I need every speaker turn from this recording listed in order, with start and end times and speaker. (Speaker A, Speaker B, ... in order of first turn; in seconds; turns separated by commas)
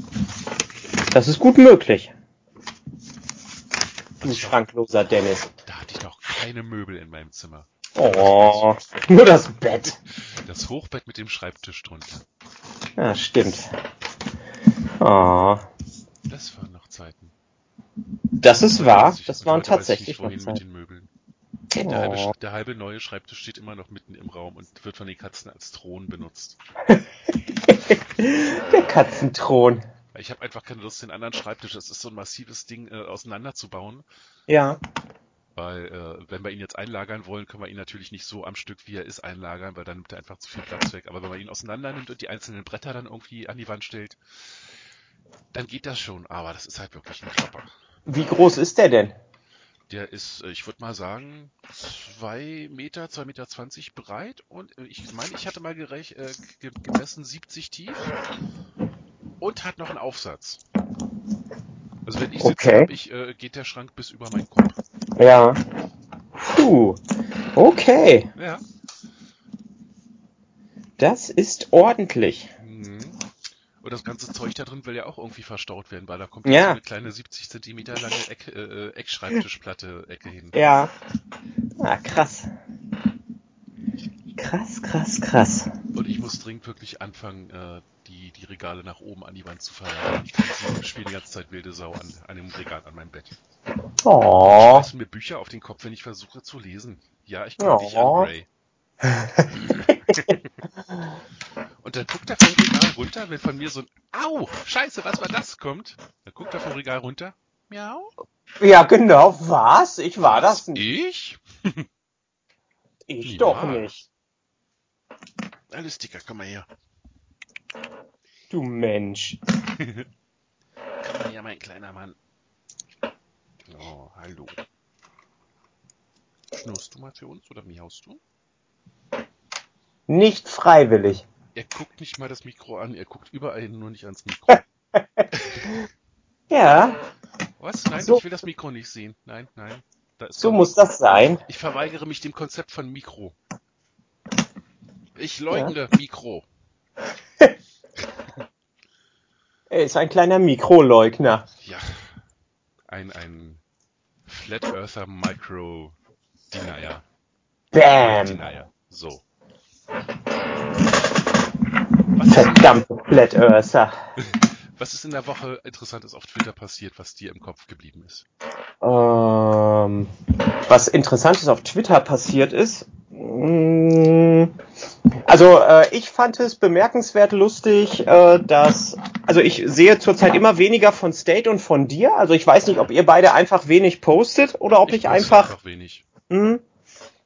Speaker A: 1.1-2.1, Speaker B: 4.2-4.6, Speaker A: 4.2-5.5, Speaker B: 5.7-8.7, Speaker A: 8.0-10.0, Speaker B: 10.1-12.2, Speaker A: 13.0-13.7, Speaker A: 15.0-15.6, Speaker B: 16.3-17.3, Speaker A: 18.4-20.6, Speaker B: 18.7-21.1, Speaker A: 21.8-22.3, Speaker B: 21.8-26.6, Speaker A: 27.7-29.8, Speaker B: 30.1-34.1, Speaker A: 34.5-34.8, Speaker B: 35.5-44.6, Speaker B: 45.5-47.7, Speaker A: 48.1-49.2, Speaker B: 49.9-58.1, Speaker B: 59.4-60.6, Speaker B: 62.0-64.8, Speaker A: 62.4-62.9, Speaker A: 65.2-65.6, Speaker A: 66.4-67.0, Speaker A: 67.6-68.3, Speaker B: 68.4-68.6, Speaker A: 71.0-72.5, Speaker B: 72.6-73.2, Speaker B: 73.8-80.6, Speaker A: 76.5-76.8, Speaker A: 80.5-80.9, Speaker A: 81.8-82.5, Speaker A: 84.4-85.7, Speaker B: 85.9-93.4, Speaker A: 94.0-94.9, Speaker B: 94.6-98.5, Speaker A: 97.6-98.3, Speaker A: 99.1-99.5, Speaker B: 99.5-100.4, Speaker A: 100.1-100.3, Speaker B: 101.8-108.1, Speaker A: 108.6-110.8, Speaker B: 110.2-111.9, Speaker A: 113.1-114.1, Speaker B: 113.2-113.9, Speaker B: 115.7-116.7, Speaker A: 118.5-119.4, Speaker B: 119.7-120.1, Speaker B: 121.0-122.2, Speaker B: 123.7-124.6, Speaker B: 126.5-128.2, Speaker A: 130.1-131.3, Speaker B: 131.6-134.6, Speaker A: 134.9-135.7, Speaker B: 135.3-135.8, Speaker A: 136.5-137.0, Speaker B: 137.6-140.8, Speaker A: 140.4-141.4, Speaker B: 141.5-143.4, Speaker B: 145.2-146.5, Speaker A: 149.7-151.5, Speaker B: 151.6-152.2, Speaker B: 152.9-153.6, Speaker B: 154.3-156.0, Speaker B: 156.5-157.0, Speaker A: 157.7-158.4, Speaker B: 158.0-159.2, Speaker B: 162.2-162.8, Speaker A: 162.3-163.9, Speaker B: 164.2-168.3, Speaker A: 168.8-170.1, Speaker A: 170.7-174.5, Speaker A: 175.3-185.5, Speaker B: 184.9-186.1, Speaker A: 186.3-186.6